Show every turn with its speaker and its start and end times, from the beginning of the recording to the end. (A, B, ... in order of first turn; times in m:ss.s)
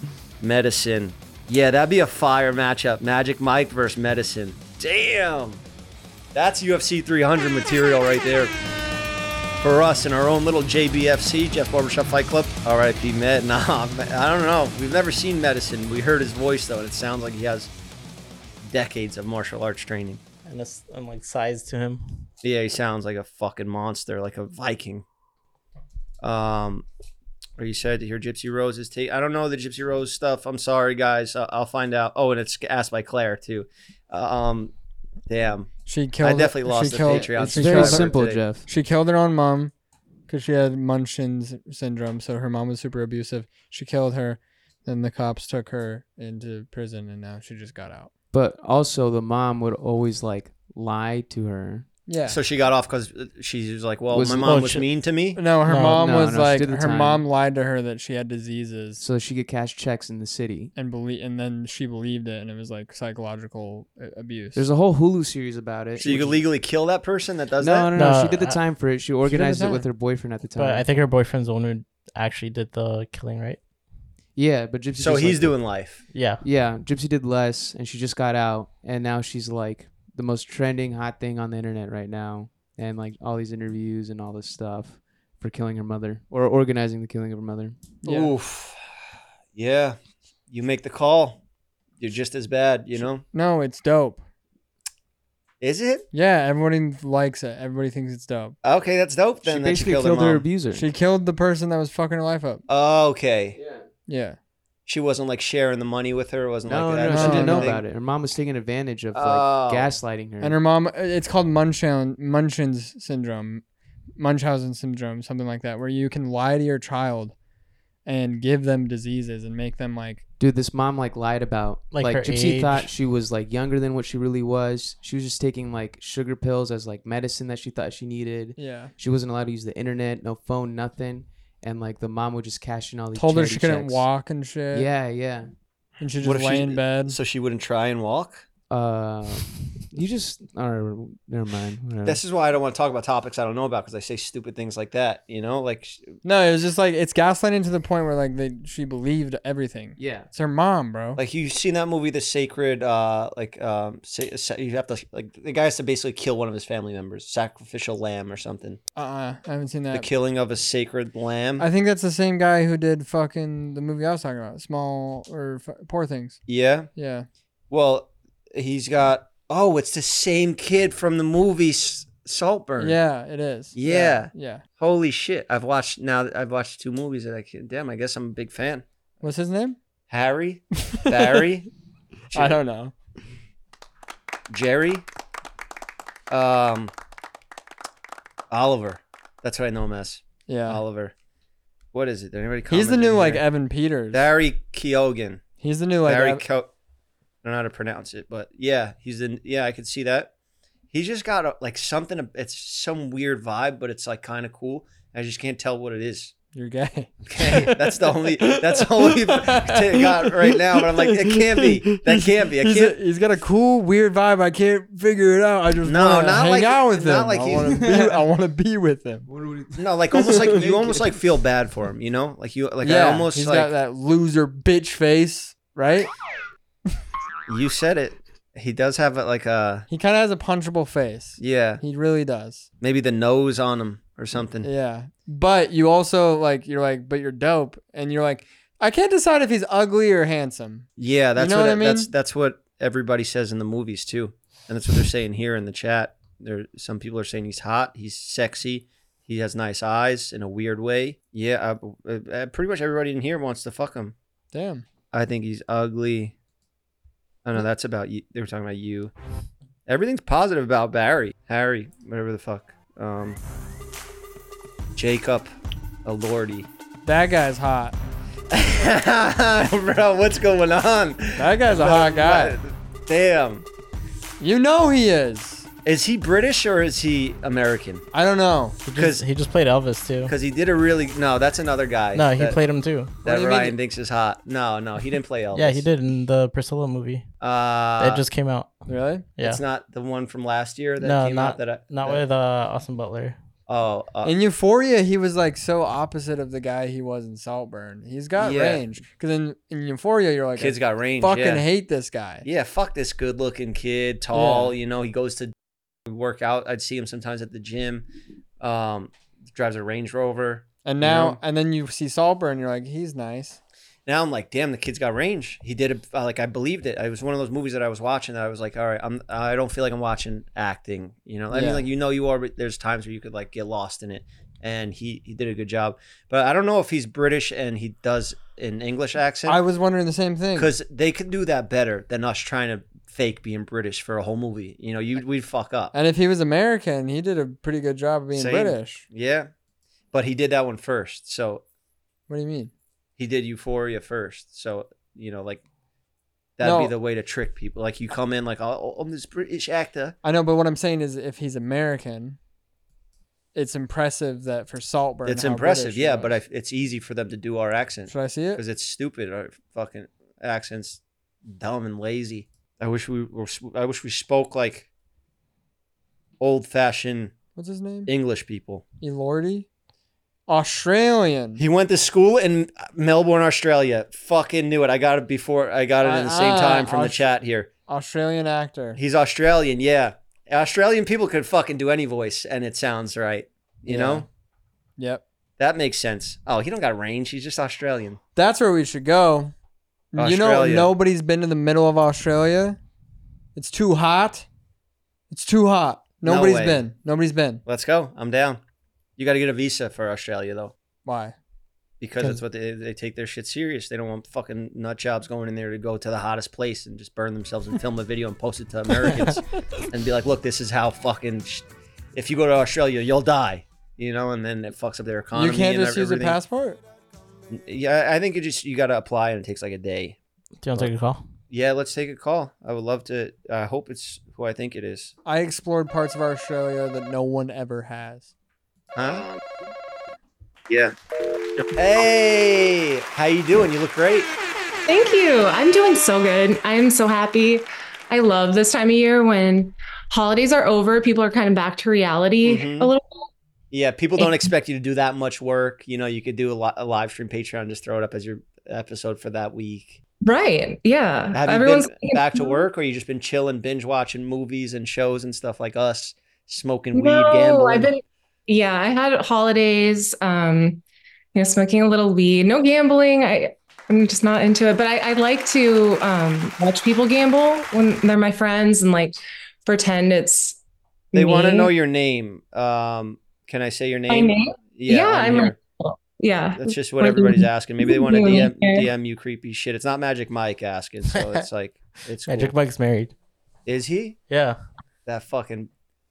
0:00.4-0:05.6 A
0:06.3-0:08.5 A
0:09.6-0:17.7 A
0:18.6-0:20.2 A
0:20.4-0:22.3 B
0:22.4-0:25.0 A
0:26.2-0:26.8 A
0:27.6-0:34.7 A
0:35.3-0:35.7 A
0:35.8-0:39.7 C
0:36.2-0:38.4 A
0:37.0-0:38.7 D
0:40.3-0:48.1 C
0:48.3-0:51.9 D
0:52.1-0:52.4 C
0:52.3-0:55.4 A
0:54.1-0:54.6 D
0:54.4-0:54.8 B
0:55.3-0:59.0 C
0:55.6-0:56.0 B
0:55.8-0:57.2 D
0:59.0-1:00.7 D
1:00.8-1:04.6 C
1:04.5-1:06.4 D
1:06.0-1:07.9 A
1:07.6-1:10.8 D
1:07.9-1:08.6 B
1:09.2-1:09.8 C
1:10.6-1:13.6 B
1:14.3-1:15.6 D
1:15.0-1:16.0 A
1:16.1-1:16.4 B
1:16.4-1:27.8 D
1:28.0-1:28.3 C
1:28.0-1:28.8 A
1:29.5-1:30.0 A
1:30.5-1:31.4 A
1:32.0-1:33.2 A
1:33.3-1:34.2 C
1:35.6-1:36.0 A
1:36.1-1:38.6 C
1:38.6-1:40.4 A
1:39.4-1:40.9 D
1:40.7-1:42.6 C
1:42.7-1:43.6 A
1:43.6-1:43.9 D
1:44.1-1:44.4 C
1:44.9-1:47.8 A
1:46.6-1:50.6 D
1:47.0-1:47.8 C
1:49.1-1:49.9 A
1:50.4-1:53.6 C
1:54.2-1:57.3 C
1:58.0-2:00.2 C
2:00.4-2:14.1 D
2:01.9-2:02.9 B
2:08.6-2:08.9 C
2:13.1-2:14.9 C
2:14.7-2:15.5 D
2:16.0-2:17.2 C
2:16.2-2:18.4 A
2:18.7-2:22.2 D
2:22.0-2:26.1 A
2:26.2-2:31.2 C
2:30.0-2:30.3 D
2:31.2-2:38.8 A
2:38.9-2:40.1 C
2:39.9-2:41.7 A
2:41.6-2:46.4 C
2:46.5-2:46.9 A
2:46.9-2:47.3 C
2:47.7-2:53.0 A
2:52.8-2:54.6 C
2:53.7-2:58.8 A
2:59.2-2:59.8 C
3:00.1-3:01.7 A
3:00.9-3:01.5 C
3:02.3-3:02.9 C
3:04.5-3:05.0 A
3:06.3-3:06.9 A
3:08.5-3:11.1 A
3:10.5-3:10.8 C
3:11.9-3:13.4 A
3:12.7-3:14.3 C
3:14.1-3:15.4 A
3:15.6-3:16.4 C
3:16.0-3:16.7 A
3:17.4-3:20.3 A
3:20.9-3:26.3 A
3:26.5-3:39.3 C
3:27.2-3:33.0 A
3:35.8-3:37.9 A
3:37.6-3:38.2 D
3:39.3-3:41.2 D
3:39.8-3:43.7 A
3:42.8-3:46.1 C
3:47.5-3:49.9 A
3:49.9-3:52.7 C
3:51.4-3:51.8 A
3:52.8-3:54.7 A
3:54.6-4:02.1 C
4:01.0-4:14.1 A
4:14.5-4:14.8 C
4:15.1-4:16.3 A
4:17.4-4:19.1 A
4:19.9-4:23.4 A
4:25.0-4:25.5 A
4:26.0-4:26.7 A
4:27.0-4:28.0 C
4:28.5-4:33.6 A
4:31.4-4:32.6 C
4:34.4-4:35.7 C
4:35.8-4:38.0 A
4:38.1-4:38.8 C
4:38.8-4:40.3 B
4:39.0-4:39.2 A
4:40.3-4:42.6 A
4:42.1-4:43.1 B
4:43.2-4:45.8 A
4:43.2-4:43.8 C
4:45.5-4:47.2 B
4:47.4-4:48.2 A
4:48.0-4:48.8 B
4:48.9-4:49.2 C
4:49.4-4:49.6 B
4:49.4-4:52.2 A
4:51.0-4:53.4 B
4:53.7-4:54.3 A
4:54.2-5:02.4 C
4:58.4-4:58.8 A
5:00.6-5:01.6 A
5:02.4-5:05.5 A
5:04.3-5:04.7 C
5:06.0-5:08.1 A
5:08.6-5:11.4 A
5:10.8-5:13.6 C
5:14.0-5:29.6 A
5:21.5-5:21.9 C
5:29.4-5:30.7 C
5:30.6-5:35.9 A
5:35.9-5:39.0 C
5:38.3-5:39.5 A
5:40.1-5:41.6 A
5:42.3-5:42.7 C
5:43.2-5:45.6 A
5:46.6-5:50.2 A
5:46.6-5:46.9 C
5:50.2-5:52.4 C
5:53.5-5:56.4 C
5:55.2-6:04.9 A
5:58.1-5:58.6 C
6:06.4-6:07.3 A
6:07.6-6:08.1 C
6:08.0-6:08.8 A
6:09.0-6:09.7 C
6:10.5-6:11.6 C
6:11.6-6:17.7 A
6:16.0-6:17.3 C
6:17.9-6:19.0 C
6:19.0-6:24.2 A
6:23.8-6:24.2 C
6:25.0-6:25.2 C
6:25.6-6:28.2 A
6:28.4-6:29.5 C
6:30.1-6:32.8 C
6:30.2-6:30.9 A
6:33.6-6:34.5 C
6:35.3-6:37.6 C
6:36.2-6:36.8 A
6:37.6-6:38.6 A
6:39.2-6:40.7 A
6:41.0-6:41.4 C
6:42.0-6:51.6 A
6:52.1-6:56.4 A
6:55.3-6:56.8 C
6:57.5-7:00.2 A
7:00.6-7:01.2 B
7:01.5-7:05.1 A
7:05.2-7:08.3 C
7:08.9-7:09.4 A
7:11.7-7:14.3 A
7:14.8-7:23.3 E
7:22.4-7:22.9 A
7:23.7-7:30.0 A
7:24.2-7:24.5 E
7:30.2-7:32.6 E
7:31.3-7:37.9 A
7:36.9-7:40.8 E
7:41.3-7:50.6 E
7:51.1-7:51.7 E
7:51.1-7:55.6 A
7:54.1-7:58.9 E
7:56.6-8:02.5 A
8:01.1-8:01.4 B
8:02.3-8:03.1 B
8:03.6-8:04.2 A
8:04.3-8:04.6 B
8:05.0-8:05.7 A